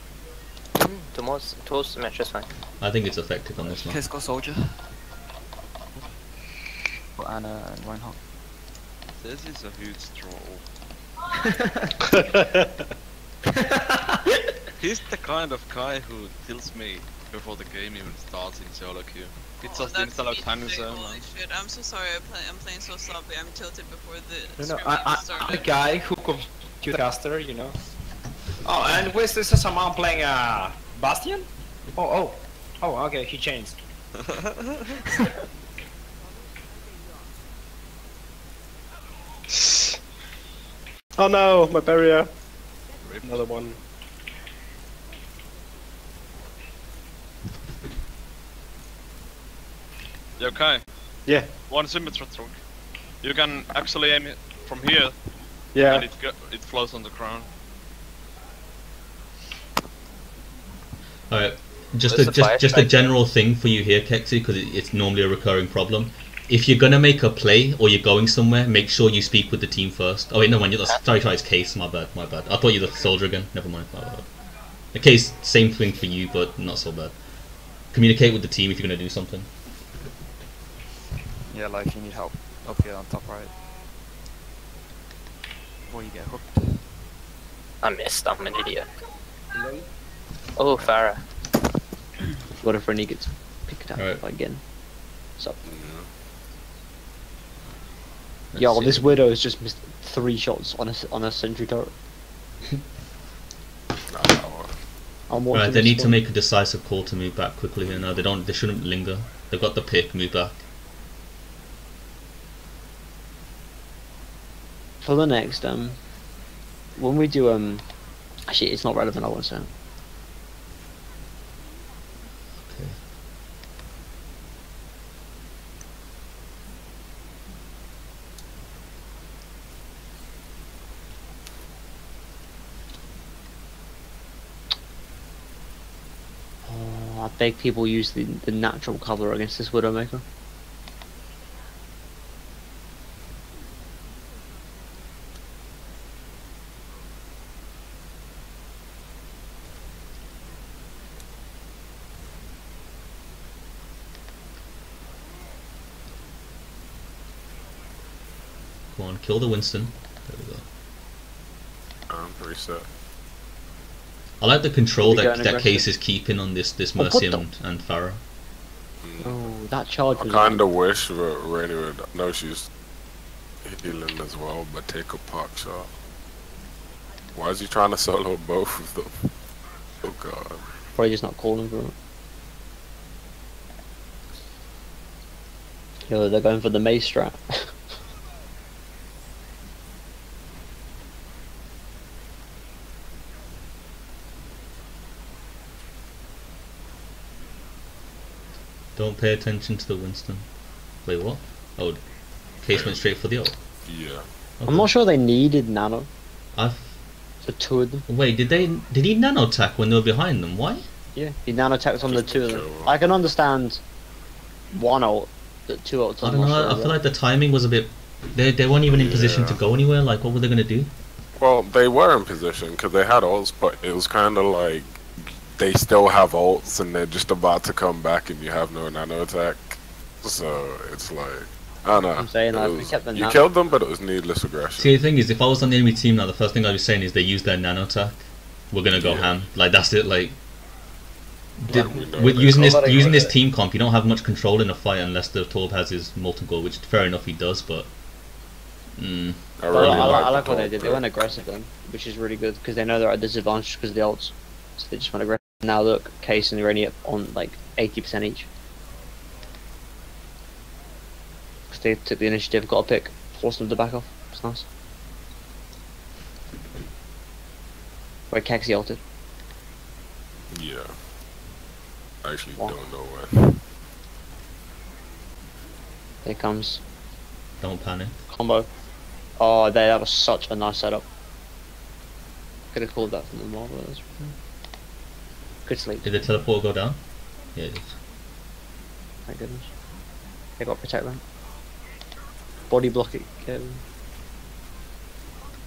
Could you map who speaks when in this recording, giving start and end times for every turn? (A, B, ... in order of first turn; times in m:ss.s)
0:00.8-0:02.5 A
0:02.8-0:04.0 B
0:03.7-0:04.9 C
0:07.2-0:08.2 C
0:09.2-0:10.6 D
0:12.1-0:12.7 E
0:13.6-0:14.2 F
0:14.8-0:21.2 D
0:19.6-0:25.7 G
0:24.6-0:27.8 F
0:28.6-0:33.8 F
0:39.5-0:40.0 E
0:41.2-0:42.3 E
0:43.0-0:43.4 D
0:43.2-0:43.8 E
0:50.4-0:50.8 D
0:51.2-0:51.5 E
0:51.7-0:52.6 D
0:53.2-0:55.1 D
0:55.7-0:56.1 E
0:55.8-0:57.5 D
1:01.3-1:14.3 B
1:02.1-1:03.0 A
1:14.9-1:17.2 B
1:17.9-1:19.5 B
1:21.5-1:23.5 C
1:25.9-1:26.9 C
1:27.8-1:28.9 A
1:29.5-1:29.9 F
1:30.6-1:31.2 A
1:32.6-1:34.6 H
1:34.0-1:34.2 B
1:35.6-1:36.1 I
1:38.5-1:39.1 B
1:38.6-1:41.9 H
1:44.1-1:44.8 I
1:45.3-1:46.2 H
1:45.5-1:50.6 B
1:55.0-1:56.0 H
1:57.0-1:57.8 H
1:58.5-1:59.7 H
2:02.6-2:03.0 B
2:16.6-2:20.2 H
2:38.9-2:40.6 B
2:42.1-2:42.9 I
2:44.4-2:48.2 B
2:45.0-2:45.8 H
2:47.0-2:47.4 H
2:49.0-2:49.4 I
2:49.2-2:50.6 H
2:50.1-2:52.7 I
2:53.6-2:55.9 I
2:57.3-2:59.3 I
3:00.0-3:00.6 I
3:01.0-3:01.9 H
3:06.1-3:07.7 H
3:19.0-3:20.4 B
3:21.0-3:22.0 B
3:22.6-3:23.6 B
3:22.7-3:23.0 I
3:23.8-3:24.2 I
3:24.6-3:24.9 B
3:24.6-3:26.1 H
3:26.5-3:26.9 B
3:27.4-3:28.0 H
3:28.1-3:30.8 B
3:31.1-3:33.8 H
3:32.0-3:32.9 I
3:34.7-3:37.0 H
3:36.2-3:40.9 B
3:38.9-3:39.6 I
3:41.4-3:55.0 I
3:52.2-3:53.4 H
3:54.8-4:00.4 B
3:58.9-3:59.3 I
4:01.6-4:07.9 B
4:01.7-4:03.3 I
4:02.6-4:03.1 H
4:09.0-4:10.3 B
4:09.6-4:11.0 I
4:09.7-4:18.5 H
4:21.7-4:24.6 H
4:28.3-4:29.0 H
4:30.5-4:30.9 I
4:32.2-4:33.6 I
4:36.2-4:36.8 H
4:37.6-4:38.2 B
4:38.3-4:38.7 H
4:39.4-4:41.0 H
4:42.7-4:44.4 H
4:45.6-4:46.1 H
4:46.0-4:47.0 B
4:47.6-4:48.0 B
4:49.2-4:49.7 H
4:50.6-4:51.2 H
4:52.7-4:53.8 H